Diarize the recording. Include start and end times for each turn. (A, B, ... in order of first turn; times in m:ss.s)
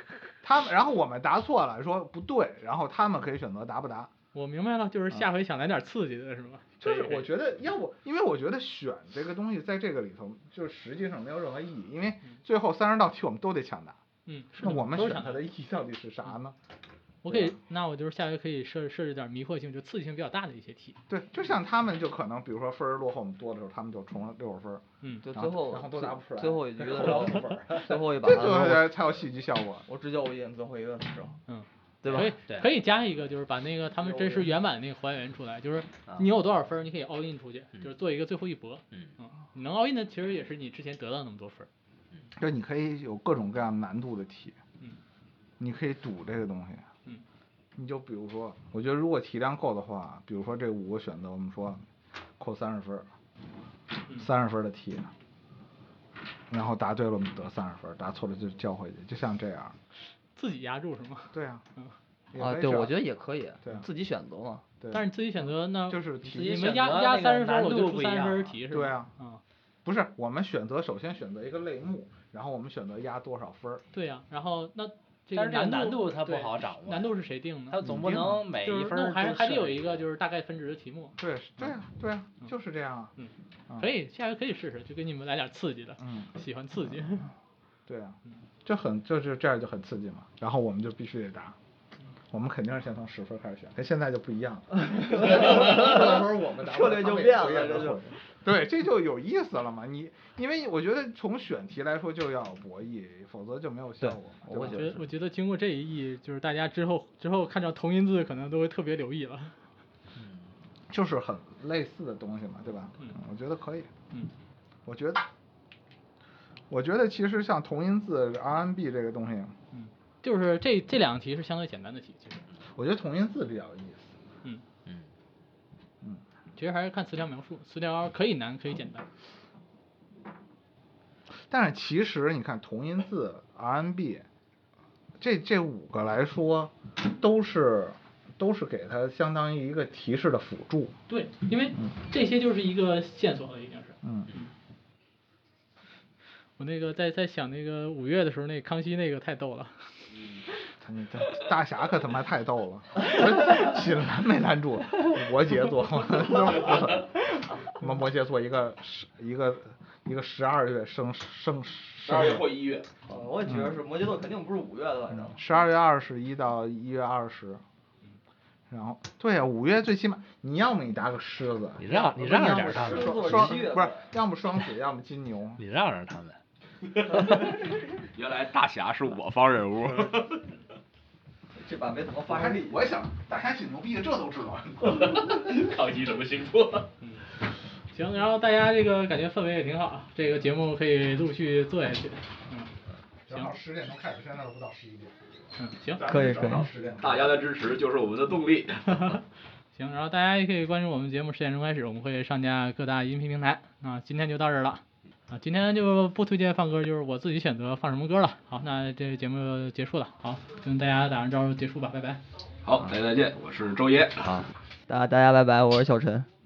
0:00.4-0:04.1 A
0:04.3-0:07.3 B
0:06.8-0:14.0 A
0:14.3-0:15.5 B
0:14.5-0:16.6 A
0:17.2-0:21.0 B
0:17.3-0:17.6 A
0:21.1-0:29.9 A
0:25.0-0:25.3 B
0:25.2-0:28.9 C
0:29.9-0:31.4 C
0:31.5-0:41.7 B
0:32.0-0:32.4 C
0:34.0-0:34.5 C
0:42.3-0:44.6 A
0:45.6-0:46.8 A
0:47.8-0:51.8 A
0:52.4-0:53.1 A
0:54.1-0:55.1 A
0:56.5-0:59.8 A
1:00.3-1:01.9 B
1:01.3-1:01.6 A
1:02.3-1:03.0 A
1:02.3-1:04.6 C
1:04.8-1:05.1 A
1:04.9-1:09.4 B
1:05.9-1:06.7 A
1:06.2-1:08.5 D
1:08.7-1:09.1 A
1:09.8-1:13.8 A
1:13.9-1:17.9 B
1:15.3-1:17.2 D
1:17.7-1:20.0 D
1:17.8-1:18.4 A
1:18.6-1:21.2 B
1:21.2-1:23.1 A
1:23.2-1:27.3 B
1:26.0-1:26.3 A
1:27.9-1:31.6 A
1:32.3-1:45.0 A
1:34.9-1:38.0 C
1:44.0-1:45.1 C
1:44.6-1:49.6 B
1:50.9-1:53.9 A
1:54.8-1:55.2 A
1:56.7-1:59.5 A
1:59.7-2:02.4 B
2:02.7-2:04.1 A
2:06.6-2:09.1 B
2:11.3-2:14.3 A
2:15.2-2:20.9 A
2:21.1-2:24.4 B
2:24.0-2:24.3 A
2:26.6-2:29.9 B
2:30.2-2:30.4 E
2:30.8-2:42.5 A
2:42.0-2:42.9 E
2:43.0-2:45.4 C
2:43.4-2:43.8 A
2:45.1-2:47.6 A
2:48.7-2:55.6 A
2:51.8-2:53.4 D
2:52.4-2:54.1 C
2:55.6-2:56.4 D
2:56.8-3:00.5 E
3:01.5-3:02.8 C
3:02.2-3:05.2 A
3:04.8-3:06.9 E
3:07.0-3:07.2 B
3:07.9-3:12.7 B
3:13.3-3:15.2 A
3:15.6-3:16.0 B
3:15.9-3:17.4 A
3:16.0-3:16.7 C
3:17.0-3:19.2 E
3:18.9-3:19.2 B
3:19.7-3:32.2 B
3:32.6-3:34.4 E
3:34.2-3:34.5 D
3:34.9-3:36.3 C